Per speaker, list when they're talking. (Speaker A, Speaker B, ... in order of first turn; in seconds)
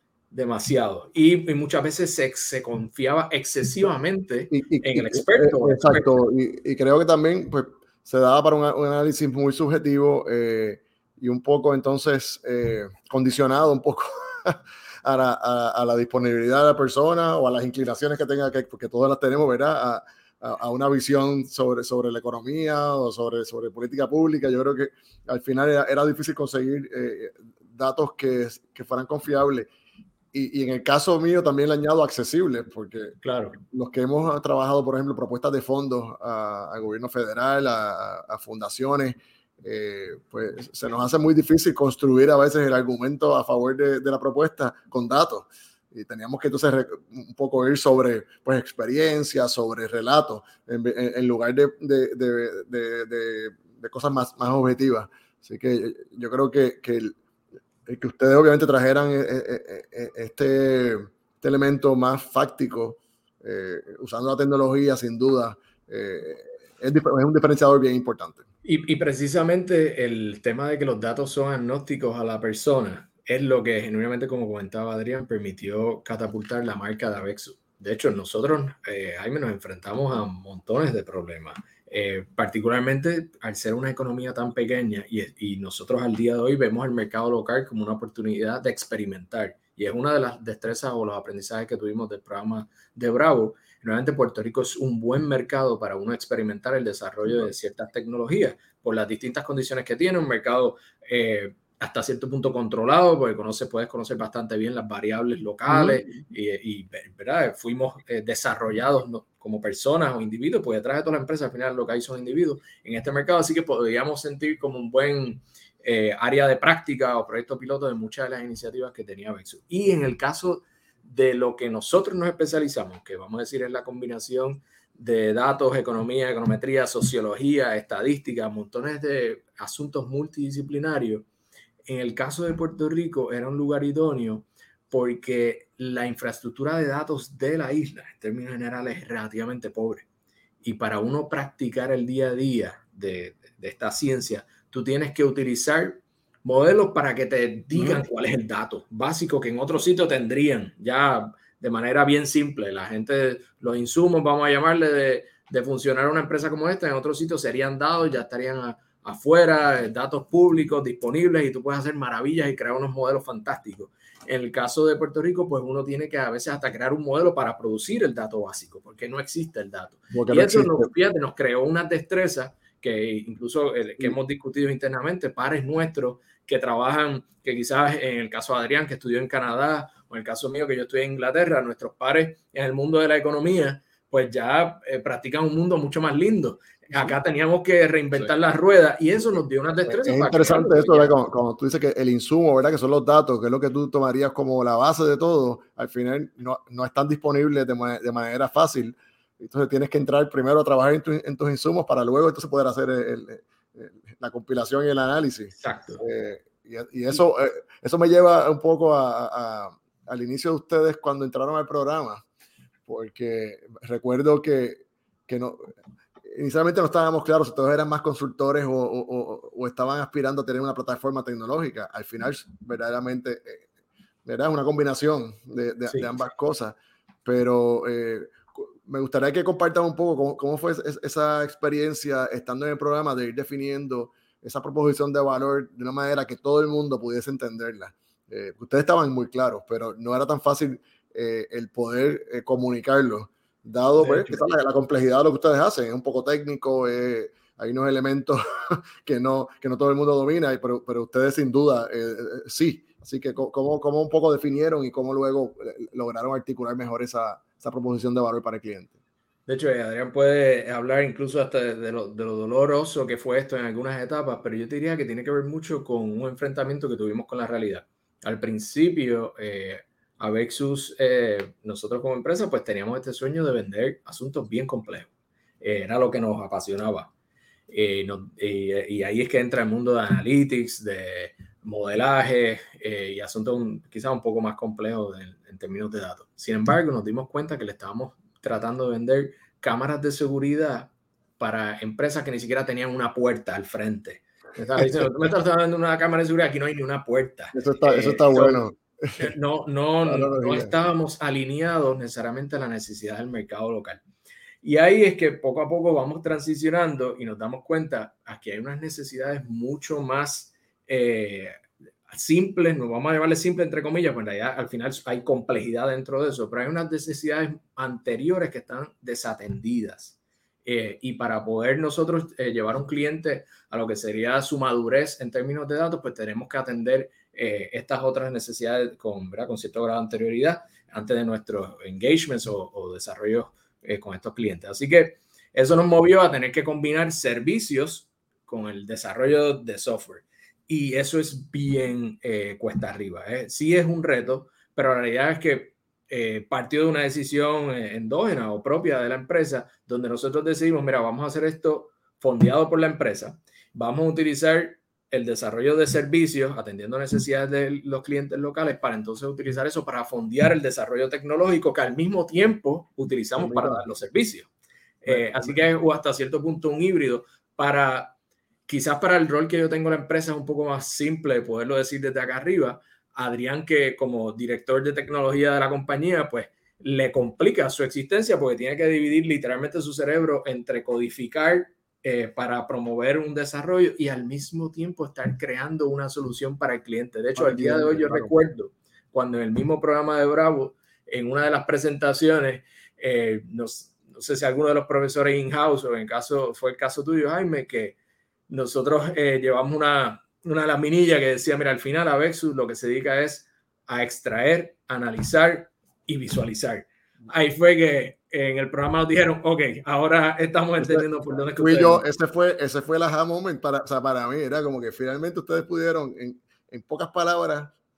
Speaker A: 0.3-6.1, 33.2-33.6, 68.6-131.2, 131.8-140.0, 140.6-191.1, 205.6-206.0, 244.0-244.5, 259.5-275.1, 275.6-277.1, 277.7-304.0, 304.6-311.6, 312.1-364.5, 365.0-368.1, 368.7-397.9, 398.5-412.0
Speaker B: 4.5-29.7, 30.3-33.2, 33.7-57.1, 57.9-68.4, 105.7-106.2, 147.7-148.0, 170.1-170.9, 189.9-212.2, 212.9-215.7, 216.3-223.7, 224.2-258.9, 294.6-295.0, 297.5-299.3, 300.0-300.7, 363.4-363.9, 365.1-365.6, 387.4-388.3, 410.8-417.7